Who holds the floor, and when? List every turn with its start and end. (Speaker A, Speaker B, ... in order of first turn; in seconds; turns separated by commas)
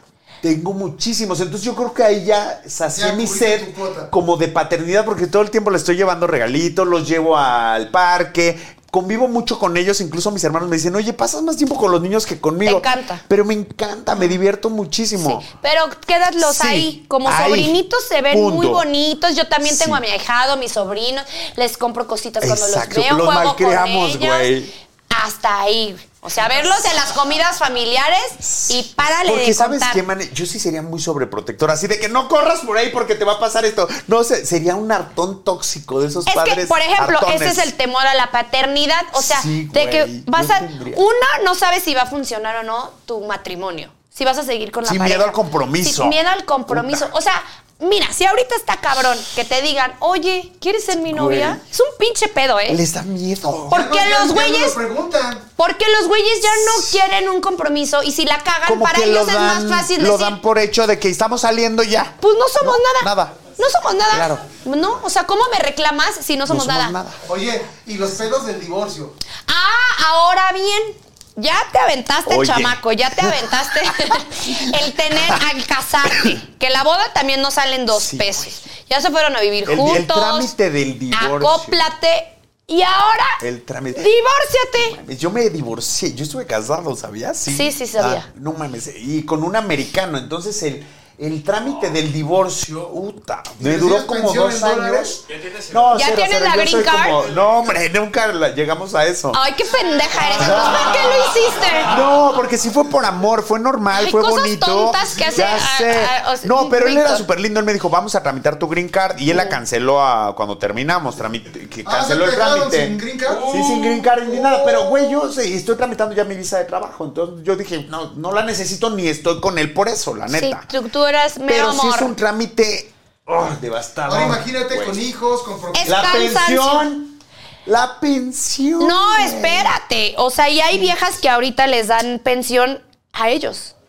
Speaker A: 0.4-15.4, Speaker B: 2.9-4.1, Speaker C: 12.7-13.2, Speaker C: 15.2-24.5, Speaker A: 16.4-18.8, Speaker A: 19.6-20.0, Speaker A: 22.4-24.7, Speaker C: 25.1-30.0, Speaker A: 28.4-37.7, Speaker C: 36.3-52.8, Speaker A: 39.1-41.0, Speaker A: 44.9-47.1, Speaker A: 51.0-51.6, Speaker A: 52.7-53.8, Speaker C: 53.7-54.8, Speaker B: 53.7-55.5, Speaker C: 55.6-60.4, Speaker A: 56.5-57.0, Speaker A: 58.6-63.5, Speaker C: 62.2-67.0, Speaker A: 64.1-64.5, Speaker A: 66.5-67.2, Speaker B: 67.3-69.2, Speaker C: 69.5-80.5, Speaker A: 72.3-75.4, Speaker A: 76.0-76.4, Speaker A: 77.9-78.5, Speaker A: 79.7-81.8, Speaker C: 81.1-83.4, Speaker A: 83.4-84.1, Speaker C: 84.0-85.0, Speaker A: 84.8-99.4, Speaker C: 87.5-88.3, Speaker B: 93.6-95.2, Speaker C: 95.9-97.2, Speaker C: 99.3-102.0, Speaker A: 100.2-120.7, Speaker C: 103.9-107.2, Speaker B: 105.0-105.6, Speaker C: 109.3-109.6, Speaker B: 111.8-115.0, Speaker C: 120.3-122.1, Speaker A: 121.4-125.0, Speaker B: 124.1-126.2, Speaker C: 125.7-126.9, Speaker A: 125.8-129.7, Speaker C: 128.8-133.7